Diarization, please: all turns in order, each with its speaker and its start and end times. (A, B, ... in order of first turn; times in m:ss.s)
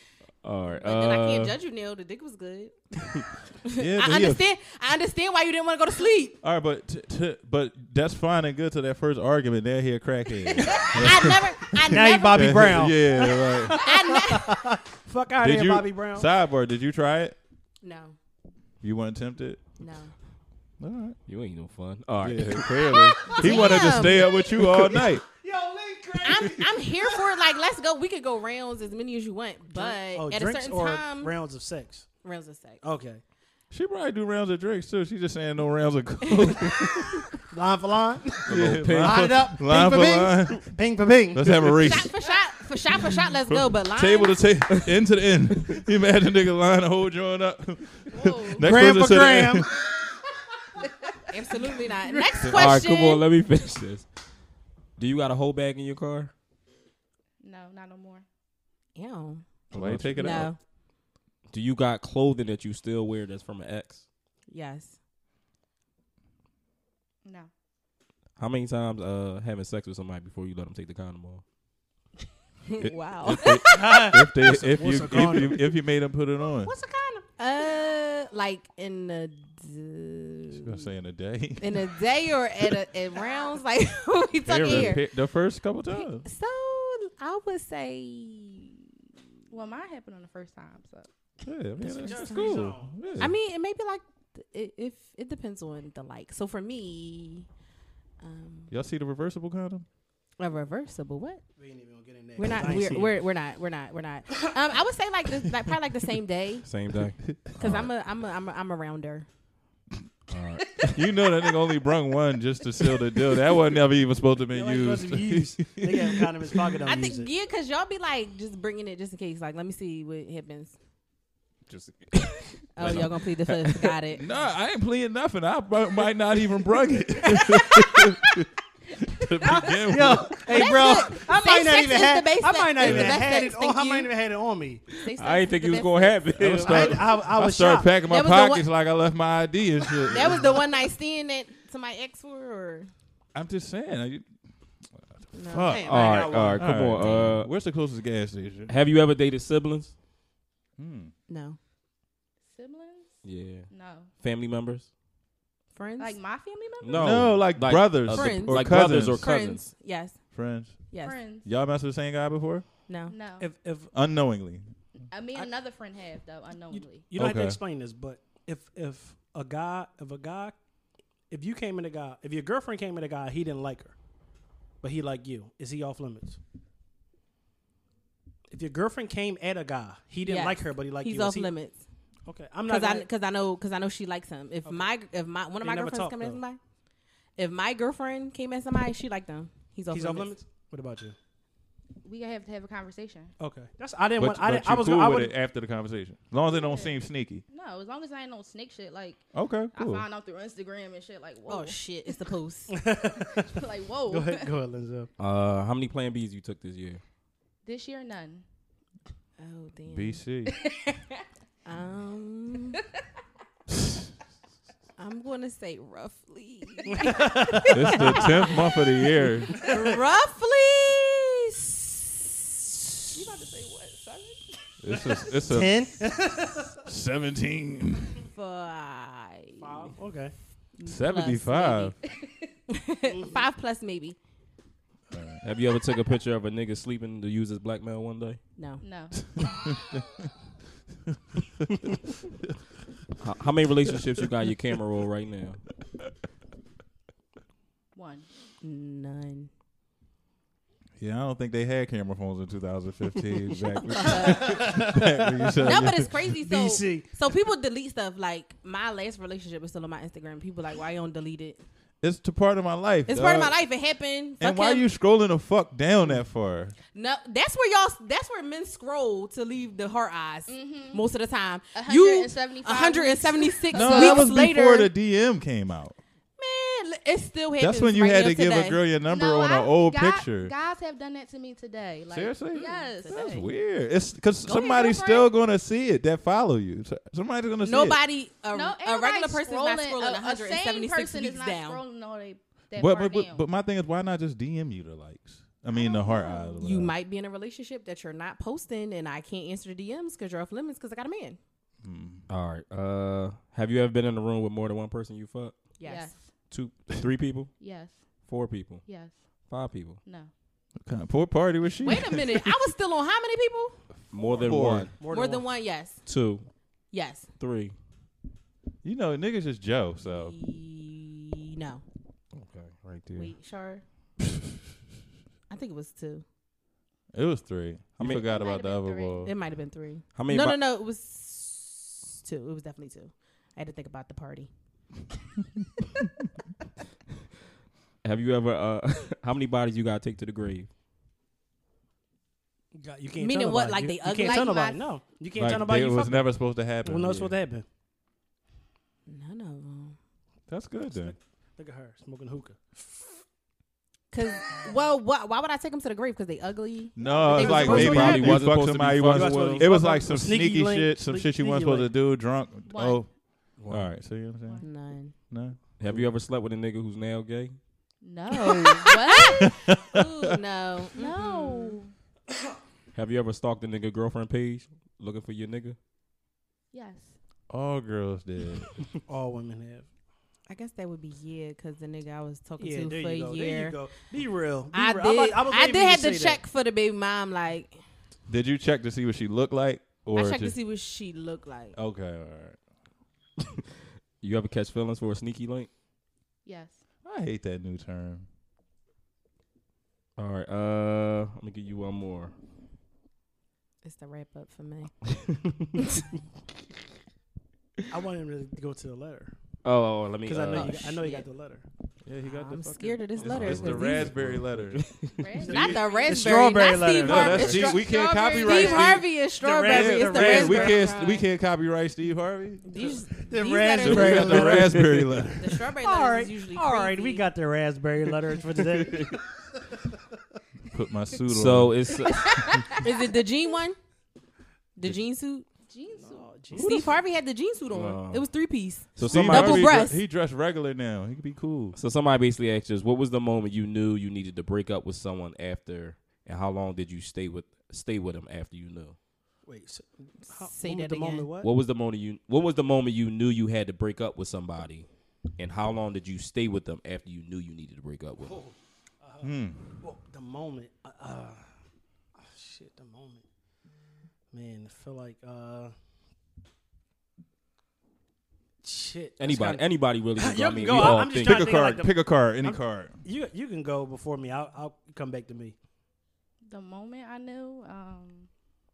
0:00.4-0:01.6 A
0:00.7-0:06.4 B
0:03.8-0:04.4 C
0:06.4-0:13.9 C
0:10.7-0:14.8 B
0:10.8-0:11.3 D
0:11.8-0:16.3 D
0:15.4-0:17.3 C
0:17.8-0:18.2 B
0:18.8-0:19.6 C
0:19.8-0:20.1 B
0:20.8-0:21.2 C
0:21.3-0:23.0 A
0:22.2-0:25.2 C
0:22.7-0:24.4 B
0:23.2-0:27.3 D
0:26.2-0:31.3 B
0:29.7-0:32.1 D
0:32.2-0:32.8 B
0:32.8-0:33.2 D
0:33.7-0:37.2 C
0:37.5-0:42.1 D
0:38.5-0:39.4 A
0:38.5-0:40.7 C
0:41.3-0:42.1 C
0:41.8-0:44.4 B
0:43.5-0:49.7 C
0:48.1-0:48.7 E
0:48.6-0:50.2 D
0:51.3-0:53.2 B
0:51.6-0:52.5 D
0:52.4-0:54.1 A
0:55.0-0:56.3 A
0:57.4-0:58.2 E
0:59.0-0:59.4 B
0:59.7-1:00.5 A
0:59.7-1:00.5 C
1:00.1-1:00.6 B
1:01.5-1:04.0 A
1:04.5-1:05.0 B
1:07.2-1:07.5 E
1:08.4-1:11.4 A
1:12.7-1:14.2 B
1:12.8-1:16.7 C
1:13.7-1:15.7 D
1:16.6-1:17.2 D
1:17.4-1:20.8 B
1:20.5-1:21.9 C
1:21.6-1:25.0 B
1:24.4-1:26.2 C
1:25.9-1:28.9 B
1:29.5-1:31.1 E
1:31.4-1:33.3 C
1:31.8-1:37.5 B
1:31.9-1:33.2 D
1:38.2-1:38.7 B
1:38.7-1:39.8 C
1:40.4-1:41.4 B
1:41.6-1:43.2 D
1:42.4-1:46.7 B
1:46.6-1:47.9 A
1:47.3-1:47.8 C
1:47.6-1:49.3 B
1:50.3-1:51.0 A
1:50.9-1:56.7 C
1:54.5-1:57.3 D
1:56.8-2:00.8 B
2:01.7-2:03.9 A
2:02.7-2:04.2 B
2:02.8-2:03.1 C
2:04.1-2:08.4 C
2:09.0-2:10.9 C
2:09.4-2:14.8 D
2:10.5-2:14.1 B
2:12.8-2:13.2 C
2:15.0-2:16.2 E
2:15.1-2:17.1 A
2:16.4-2:20.5 C
2:16.6-2:17.9 D
2:18.0-2:18.6 B
2:20.0-2:22.9 B
2:23.3-2:24.3 C
2:24.9-2:28.7 C
2:25.3-2:26.3 B
2:25.6-2:27.0 D
2:25.8-2:27.5 A
2:28.7-2:29.9 A
2:30.8-2:31.1 C
2:31.3-2:31.6 B
2:32.5-2:34.1 E
2:33.2-2:34.9 A
2:35.7-2:36.2 B
2:36.0-2:37.3 E
2:36.8-2:39.7 A
2:36.9-2:39.3 C
2:38.0-2:40.3 B
2:40.3-2:42.7 C
2:40.9-2:41.2 B
2:41.0-2:41.5 E
2:42.9-2:43.1 B
2:43.1-2:43.5 E
2:43.4-2:43.9 D
2:43.9-2:44.7 C
2:45.1-2:47.0 E
2:46.7-2:50.6 D
2:47.1-2:47.6 C
2:51.3-2:53.9 D
2:54.8-2:56.4 D
2:58.5-3:01.5 D
3:00.2-3:01.8 B
3:02.3-3:03.1 D
3:02.6-3:06.6 B
3:05.6-3:06.4 D
3:07.4-3:10.3 B
3:09.9-3:11.2 D
3:12.0-3:13.3 E
3:13.4-3:15.3 D
3:14.2-3:17.4 C
3:16.4-3:16.9 E
3:17.5-3:22.2 E
3:19.3-3:20.0 C
3:21.5-3:22.7 B
3:22.7-3:23.5 D
3:23.3-3:24.5 E
3:24.1-3:25.1 D
3:25.2-3:27.0 A
3:27.6-3:28.4 E
3:29.4-3:30.2 B
3:29.9-3:30.6 C
3:30.5-3:30.7 E
3:31.6-3:32.8 B
3:35.0-3:38.7 B
3:36.9-3:38.2 D
3:37.7-3:39.6 C
3:39.6-3:40.0 D
3:39.6-3:43.1 B
3:43.1-3:45.2 E
3:44.8-3:46.0 C
3:45.4-3:46.8 D
3:46.8-3:48.2 C
3:48.3-3:49.9 B
3:49.6-3:50.3 D
3:50.8-3:51.9 B
3:50.8-3:51.9 C
3:52.1-3:52.5 E
3:52.7-3:54.2 B
3:55.1-3:55.4 C
3:55.4-3:58.4 A
3:58.6-3:58.8 B
3:58.8-3:59.2 E
3:59.3-4:00.3 C
4:03.2-4:05.6 A
4:07.9-4:08.3 E
4:08.6-4:09.5 B
4:11.0-4:16.2 C
4:13.8-4:14.9 B
4:14.0-4:17.1 D
4:15.6-4:21.6 B
4:22.0-4:23.5 C
4:23.1-4:24.9 B
4:24.4-4:26.7 C
4:26.9-4:34.9 B
4:30.5-4:31.0 E
4:31.7-4:34.3 E
4:33.7-4:36.0 C
4:36.4-4:38.8 B
4:37.6-4:40.5 C
4:39.1-4:43.2 E
4:42.1-4:48.0 C
4:42.5-4:43.5 B
4:44.4-4:45.3 B
4:47.6-4:51.8 B
4:48.5-4:53.4 E
4:52.8-4:56.9 C
4:55.7-4:56.6 E
4:56.6-5:01.4 B
5:01.8-5:02.2 C
5:02.3-5:05.6 A
5:05.8-5:06.1 B
5:05.8-5:06.3 E
5:06.5-5:07.5 A
5:07.6-5:08.3 E
5:08.2-5:08.8 A
5:08.8-5:09.2 E
5:09.5-5:10.0 A
5:10.0-5:10.3 E
5:10.7-5:12.5 C
5:11.8-5:13.8 B
5:14.1-5:14.9 A
5:14.2-5:14.9 C
5:14.2-5:15.4 D
5:15.0-5:16.0 B
5:16.0-5:16.5 A
5:16.9-5:17.3 B
5:17.4-5:17.7 A
5:18.8-5:20.4 C
5:20.0-5:21.8 B
5:22.3-5:23.3 A
5:23.1-5:23.8 B
5:25.5-5:26.2 B
5:27.1-5:29.3 C
5:28.0-5:29.3 E
5:29.2-5:34.5 B
5:30.1-5:30.6 A
5:38.0-5:40.7 A
5:42.7-5:47.6 D
5:43.2-5:44.6 B
5:44.1-5:44.9 E
5:45.3-5:47.4 C
5:45.4-5:45.7 A
5:49.0-5:50.0 B
5:50.5-5:51.1 C
5:50.9-5:53.1 D
5:54.1-5:58.0 B
5:57.0-6:06.0 C
5:57.1-6:01.9 D
5:57.5-5:59.7 A
6:02.7-6:03.0 E
6:03.6-6:03.9 A
6:04.6-6:05.1 B
6:05.8-6:07.6 A
6:08.0-6:09.5 E
6:09.5-6:10.3 C
6:09.9-6:11.8 B
6:10.9-6:11.9 E
6:12.9-6:15.8 A
6:16.7-6:17.2 E
6:17.5-6:18.7 C
6:19.1-6:19.9 D
6:20.5-6:23.8 B
6:22.6-6:26.4 D
6:24.7-6:27.8 B
6:28.3-6:30.5 C
6:30.1-6:31.8 B
6:31.8-6:32.6 C
6:34.2-6:35.7 A
6:36.4-6:36.8 E
6:37.0-6:38.2 C
6:40.2-6:42.3 A
6:43.8-6:45.0 B
6:45.2-6:45.8 A
6:47.9-6:49.3 D
6:49.6-6:50.8 A
6:50.2-6:51.6 D
6:50.5-6:51.2 B
6:52.0-6:55.8 C
6:52.2-6:54.1 B
6:53.2-6:55.2 A
6:55.2-6:56.2 E
6:55.4-6:57.7 D
6:55.5-7:01.2 B
6:57.0-6:59.1 C
6:57.1-6:58.8 E
6:59.2-7:00.8 D
6:59.7-7:02.6 C
7:02.6-7:04.8 B
7:02.8-7:09.9 D
7:03.8-7:05.6 C
7:05.4-7:07.3 B
7:08.6-7:09.1 A
7:10.7-7:11.9 C
7:11.2-7:12.8 A
7:12.0-7:12.8 E
7:12.7-7:13.8 B
7:14.8-7:15.4 B
7:15.7-7:16.3 E
7:16.0-7:17.0 D
7:16.5-7:20.0 B
7:17.7-7:18.2 A
7:19.0-7:19.8 A
7:19.0-7:21.8 C
7:21.7-7:29.0 A
7:29.4-7:31.5 D
7:30.3-7:31.3 B
7:31.4-7:38.4 A
7:38.2-7:39.3 D
7:39.2-7:39.6 C
7:39.8-7:41.5 D
7:42.2-7:43.2 D
7:44.3-7:45.7 D
7:48.6-7:55.6 D
7:49.2-7:51.7 A
7:50.7-7:53.0 C
7:56.4-7:58.3 E